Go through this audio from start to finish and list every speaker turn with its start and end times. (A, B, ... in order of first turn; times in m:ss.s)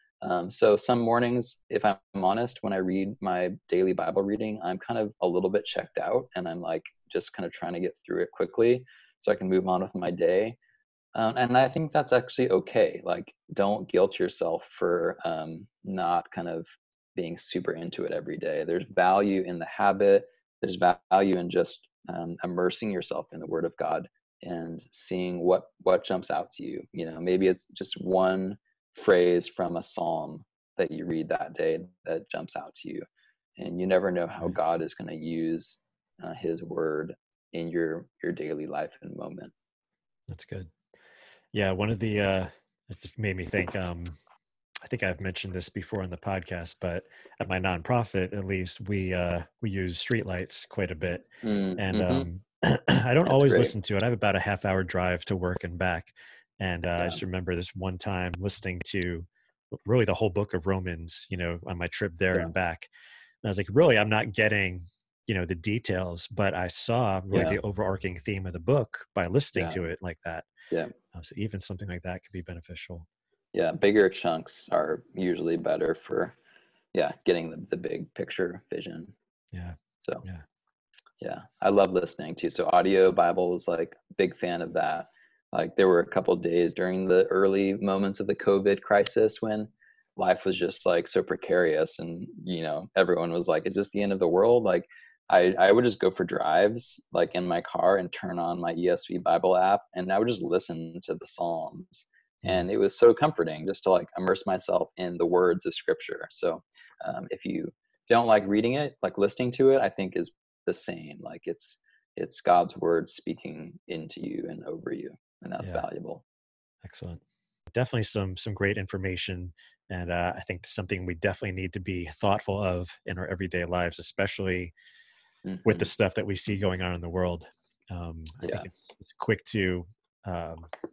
0:00.2-0:10.6 A
0:11.1-0:33.0 A
0:33.6-0:39.5 A
0:40.3-0:40.7 B
0:41.5-0:44.2 B
0:44.8-1:02.9 B
0:51.4-0:52.3 A
0:53.2-0:53.7 A
0:57.0-0:57.2 A
1:03.4-1:10.5 B
1:07.3-1:07.6 A
1:11.1-1:13.0 B
1:13.5-1:16.3 A
1:16.9-1:19.1 A
1:19.5-1:20.4 B
1:21.2-1:56.2 A
1:42.4-1:42.7 B
1:56.8-2:04.7 B
2:05.4-2:05.9 A
2:05.6-2:10.7 B